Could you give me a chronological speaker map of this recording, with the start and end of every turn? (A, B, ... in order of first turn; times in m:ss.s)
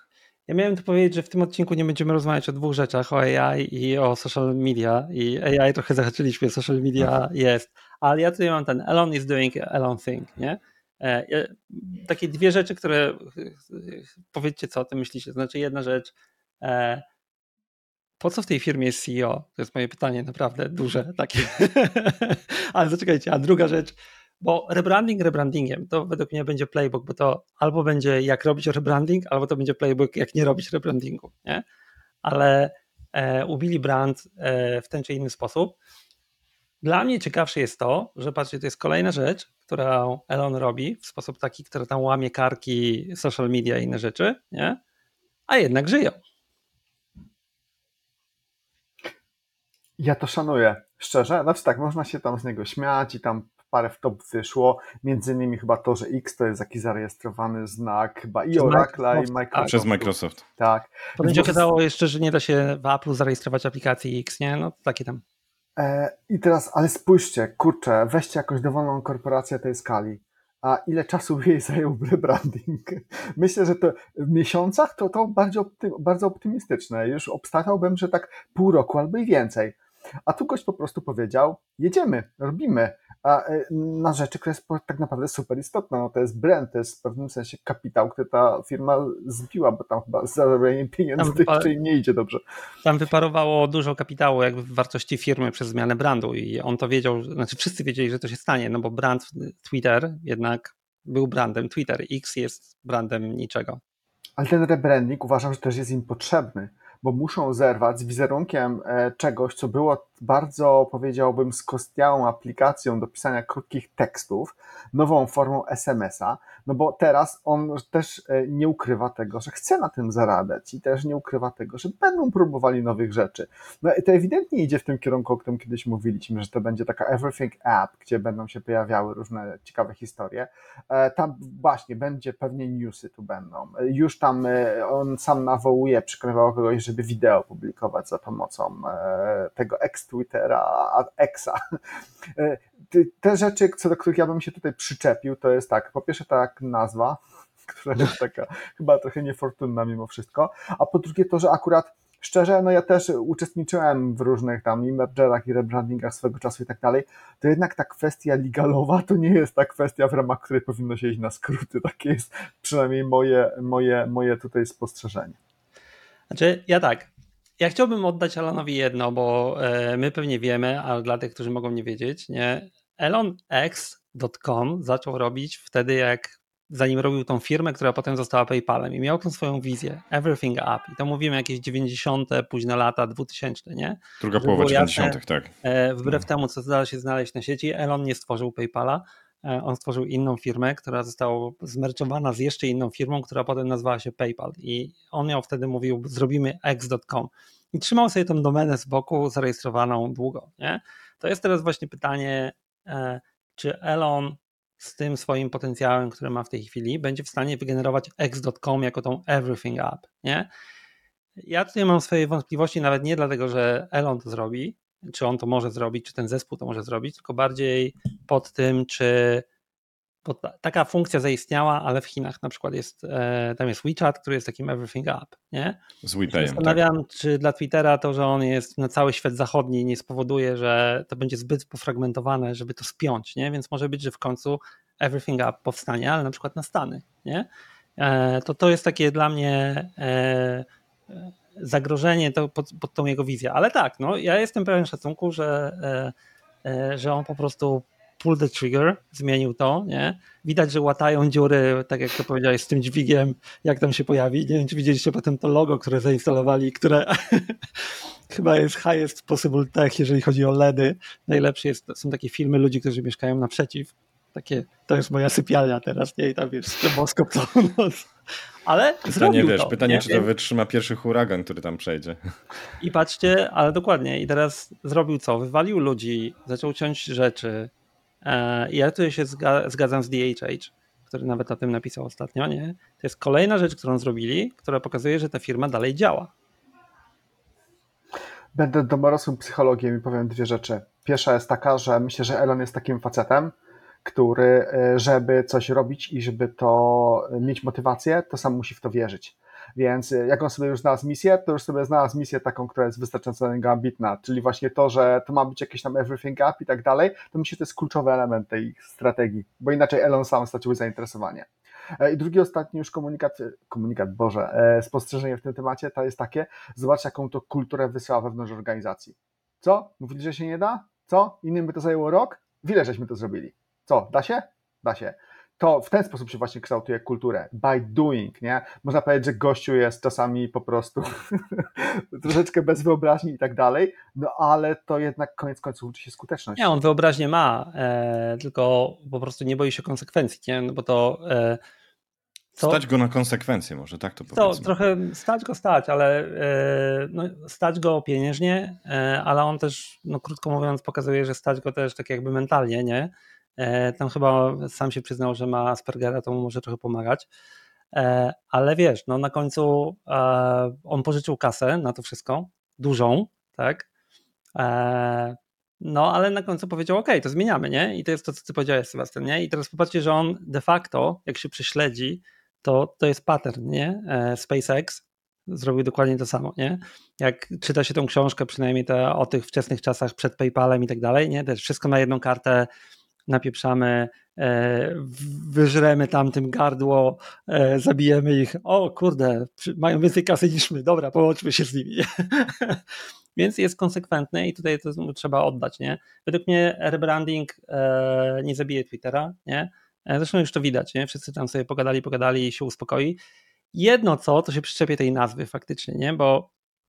0:00.5-0:17.0 A
0:18.2-0:31.6 A
0:32.2-0:35.8 A
0:36.8-0:44.8 A
0:45.5-0:46.2 A
0:50.0-1:01.6 B
0:58.5-0:59.8 A
0:59.6-1:00.4 C
1:01.2-1:05.2 A
1:05.8-1:32.4 B
1:31.2-1:31.7 A
1:32.8-1:43.8 A
1:44.4-2:21.6 B
2:22.3-2:45.4 B
2:46.3-3:30.5 A
3:04.2-3:05.5 C
3:31.4-3:39.4 A
3:40.2-3:45.8 A
3:46.0-3:46.8 C
3:46.3-3:57.5 A
3:58.0-4:06.1 A
4:06.6-4:28.1 A
4:28.6-4:30.3 A
4:29.1-4:32.2 C
4:32.8-4:37.7 A
4:38.2-4:46.3 A
4:48.5-5:11.5 B
5:12.0-5:36.7 B
5:36.6-5:41.6 A
5:42.5-5:42.8 A
5:42.6-5:44.7 C
5:44.3-5:57.3 A
5:57.9-6:03.9 A
6:04.6-6:22.7 A
6:23.3-6:32.8 A
6:33.4-6:43.2 A
6:43.7-6:46.5 A